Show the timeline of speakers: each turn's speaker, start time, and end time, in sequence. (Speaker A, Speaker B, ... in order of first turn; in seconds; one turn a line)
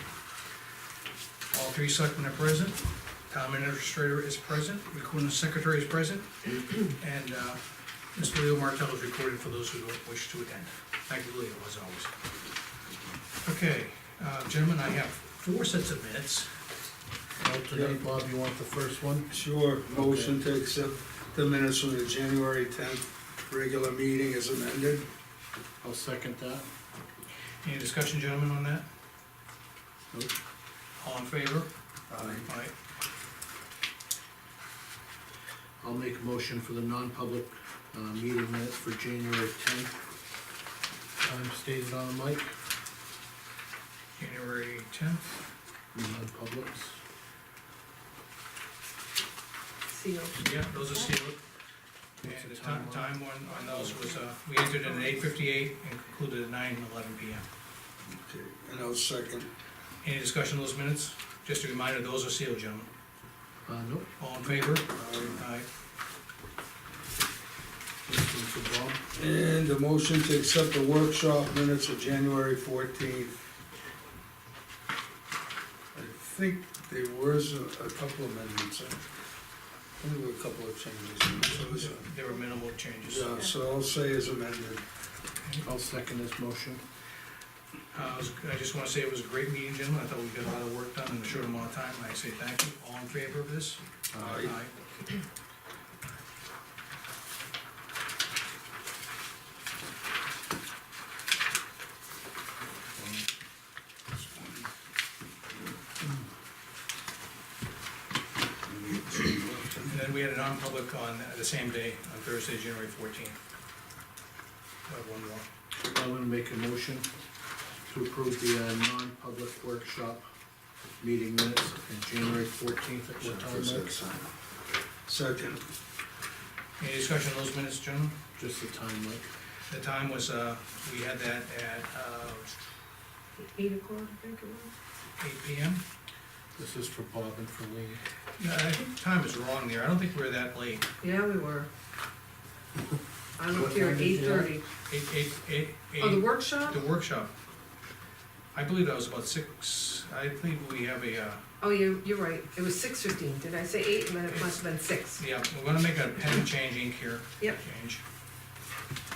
Speaker A: 1.5-7.6
Speaker A: 8.1-12.1
Speaker A: 13.4-16.5
Speaker B: 17.4-19.3
Speaker C: 17.7-18.0
Speaker C: 19.3-25.1
Speaker B: 19.9-20.4
Speaker B: 25.8-26.7
Speaker A: 27.6-28.9
Speaker A: 31.0-31.7
Speaker C: 32.1-32.4
Speaker A: 32.3-32.7
Speaker B: 35.8-39.9
Speaker B: 41.2-42.5
Speaker A: 44.2-45.2
Speaker B: 45.9-47.0
Speaker D: 49.9-51.1
Speaker A: 50.4-51.4
Speaker B: 52.2-53.2
Speaker A: 52.2-57.5
Speaker D: 53.9-54.2
Speaker C: 58.1-59.5
Speaker A: 60.0-62.9
Speaker B: 63.6-64.1
Speaker A: 64.2-65.7
Speaker C: 64.9-65.4
Speaker B: 68.1-69.0
Speaker C: 69.1-73.3
Speaker C: 75.9-79.0
Speaker C: 80.0-82.1
Speaker A: 81.4-83.4
Speaker C: 83.1-84.8
Speaker B: 85.6-86.8
Speaker A: 87.9-93.8
Speaker B: 94.1-94.4
Speaker C: 94.1-94.5
Speaker A: 94.4-94.7
Speaker C: 104.1-104.7
Speaker C: 108.7-109.9
Speaker A: 109.8-113.4
Speaker A: 114.9-115.5
Speaker B: 115.9-117.0
Speaker B: 117.9-120.2
Speaker B: 121.0-124.0
Speaker C: 123.2-124.3
Speaker C: 125.1-125.6
Speaker A: 126.8-128.2
Speaker B: 128.3-129.3
Speaker A: 129.7-132.5
Speaker D: 133.4-134.7
Speaker A: 135.2-135.8
Speaker B: 136.6-138.0
Speaker A: 138.3-140.8
Speaker D: 141.0-141.7
Speaker D: 143.4-144.6
Speaker B: 143.5-144.5
Speaker A: 144.9-147.3
Speaker D: 146.0-146.8
Speaker A: 148.5-151.4
Speaker D: 151.6-155.2
Speaker A: 154.3-154.6
Speaker A: 155.2-158.0